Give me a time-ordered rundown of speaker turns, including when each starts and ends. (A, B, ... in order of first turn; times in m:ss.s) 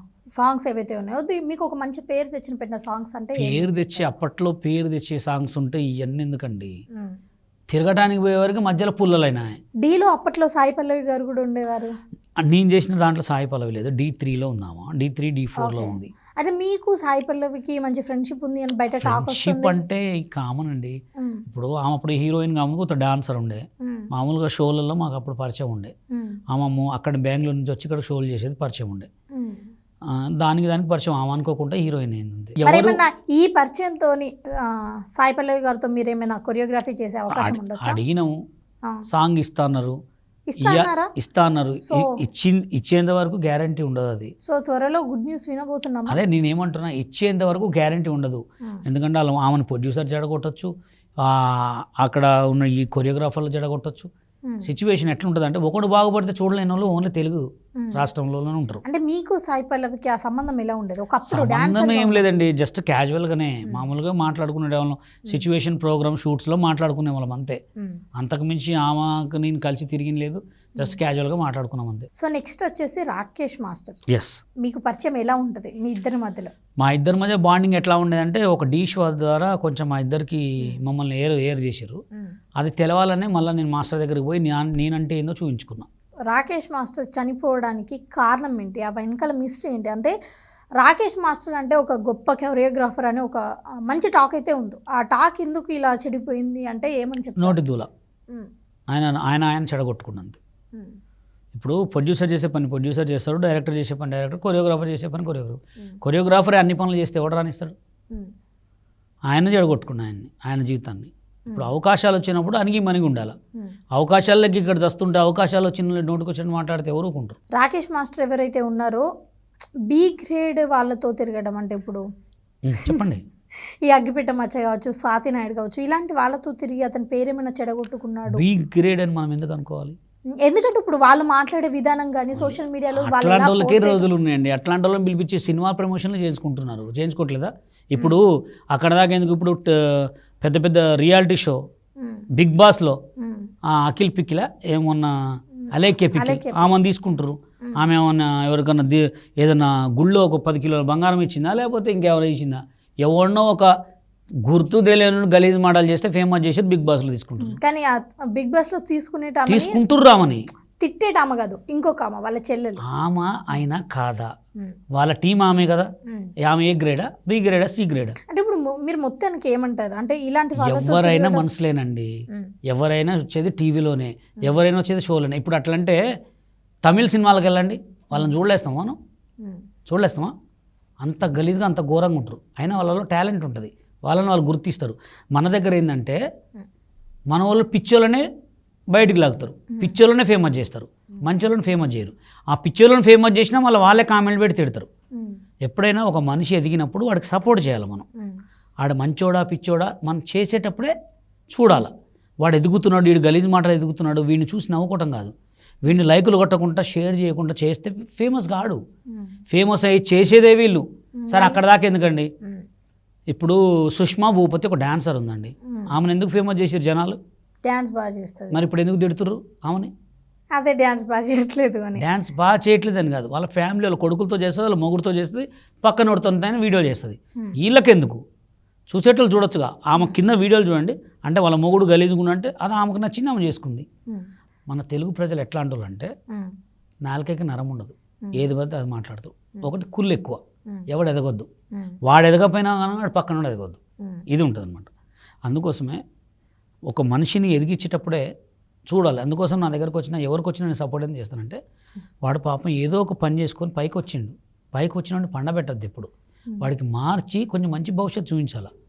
0:00.4-0:04.1 A
0:03.4-0:06.7 B
0:07.7-0:09.5 B
0:09.8-0:12.0 A
0:12.4-0:16.1 B
0:15.6-0:19.8 A
0:19.0-0:25.9 B
0:21.2-0:21.4 A
0:23.8-0:24.1 A
0:26.1-0:26.4 A
0:26.5-0:29.1 B
0:29.4-0:29.7 A
0:30.1-0:33.0 B
0:32.6-0:38.0 A
0:37.3-0:38.4 B
0:39.1-0:40.0 B
0:40.5-0:41.1 A
0:40.6-0:44.3 B
0:41.9-0:42.2 A
0:44.4-0:46.2 A
0:46.1-0:54.1 B
0:54.6-0:58.8 B
0:58.8-1:02.2 A
1:01.3-1:07.6 B
1:08.2-1:12.1 B
1:12.2-1:14.0 A
1:14.1-1:14.4 B
1:14.6-1:16.5 A
1:16.8-1:22.0 B
1:22.6-1:25.9 B
1:26.3-1:30.1 A
1:30.8-1:37.6 A
1:37.4-1:37.9 B
1:38.9-1:40.4 B
1:41.5-1:47.7 B
1:49.3-1:53.4 B
1:53.9-1:57.4 B
1:57.6-1:59.0 A
1:59.9-2:02.0 A
2:02.6-2:03.2 B
2:03.8-2:08.4 A
2:08.3-2:10.0 B
2:10.4-2:14.1 A
2:12.3-2:21.6 B
2:22.3-2:23.0 B
2:23.2-2:23.5 A
2:23.7-2:25.1 B
2:25.6-2:26.8 A
2:25.7-2:33.7 B
2:34.4-2:37.6 B
2:37.4-2:39.8 A
2:39.5-2:40.4 B
2:40.8-2:42.8 A
2:42.8-2:44.3 B
2:44.9-2:45.9 B
2:46.4-2:48.2 B
2:48.3-2:51.4 A
2:50.6-2:52.1 B
2:52.7-2:56.0 B
2:56.8-2:59.0 B
2:59.9-3:00.3 B
3:01.0-3:06.2 B
3:07.3-3:08.2 B
3:08.9-3:14.9 B
3:09.7-3:10.0 A
3:15.6-3:18.0 B
3:18.8-3:20.9 B
3:21.5-3:25.3 B
3:25.8-3:28.8 B
3:29.5-3:32.3 B
3:31.2-3:31.6 A
3:33.3-3:37.2 B
3:37.6-3:38.6 A
3:38.5-3:39.9 B
3:40.5-3:42.0 A
3:42.0-3:48.2 B
3:48.9-3:53.9 B
3:54.7-3:56.1 B
3:57.0-4:01.5 B
4:02.0-4:03.8 B
4:04.3-4:04.9 B
4:05.4-4:06.0 B
4:06.9-4:08.2 B
4:08.9-4:11.6 B
4:12.2-4:18.7 B